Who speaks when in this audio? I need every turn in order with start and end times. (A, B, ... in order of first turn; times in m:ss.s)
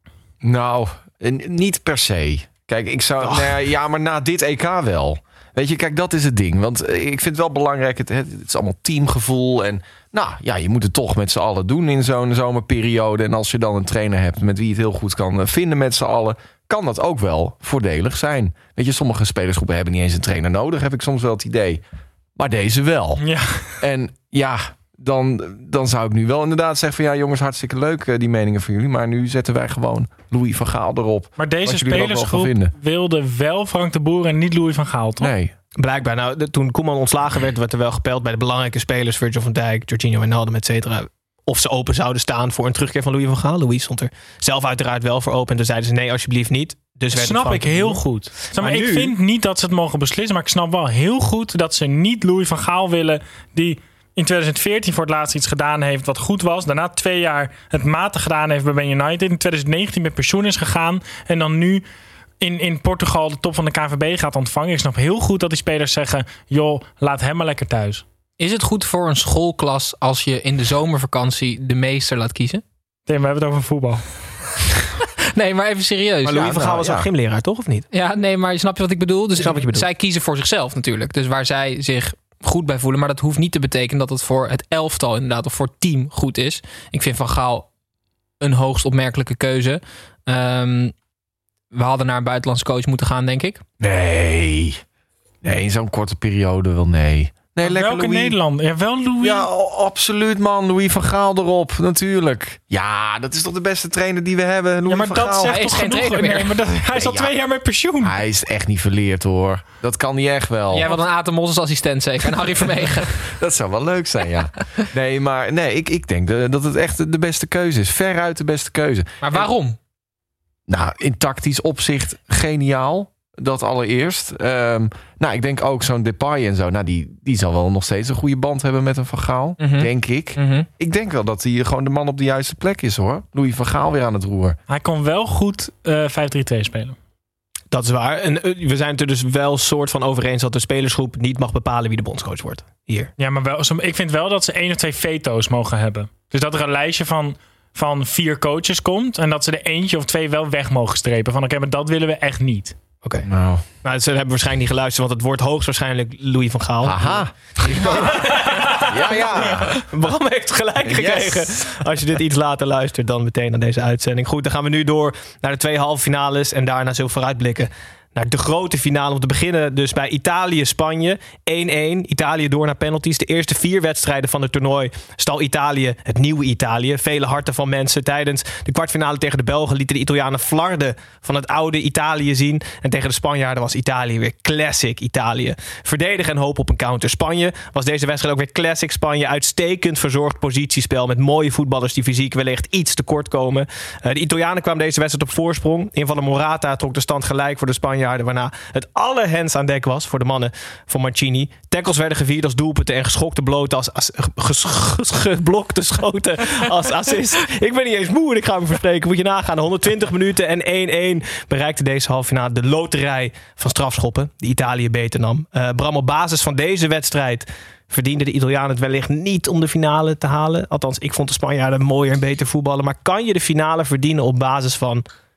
0:00.4-0:21.8 A
0:03.2-0:03.5 B
0:22.4-0:23.2 A
0:23.2-0:23.7 C
0:23.8-0:32.7 A
0:31.4-0:35.3 C
0:35.2-0:35.5 A
0:35.8-0:48.0 B
0:47.1-1:01.8 C
0:48.6-0:49.1 B
1:02.4-1:08.0 C
1:08.4-1:12.6 D
1:13.1-1:14.0 C
1:15.3-1:16.6 D
1:16.2-1:17.9 B
1:16.5-1:17.1 A
1:17.9-1:27.7 D
1:19.4-1:19.9 B
1:28.4-1:30.9 D
1:31.7-1:33.6 D
1:33.8-1:34.8 A
1:35.4-1:38.4 A
1:37.6-1:39.5 C
1:39.2-1:45.6 A
1:44.9-1:48.2 C
1:45.4-1:46.6 D
1:46.9-1:47.3 A
1:48.0-1:50.9 A
1:50.7-1:53.2 D
1:53.3-1:59.5 A
1:59.2-1:59.8 D
2:00.7-2:14.6 A
2:09.6-2:10.7 D
2:14.7-2:17.0 C
2:17.7-2:23.1 B
2:23.2-2:32.8 C
2:33.0-2:33.3 B
2:33.2-2:33.6 A
2:33.8-2:38.9 B
2:36.8-2:39.8 A
2:38.5-2:38.7 C
2:39.8-3:45.0 B
2:40.8-2:41.7 A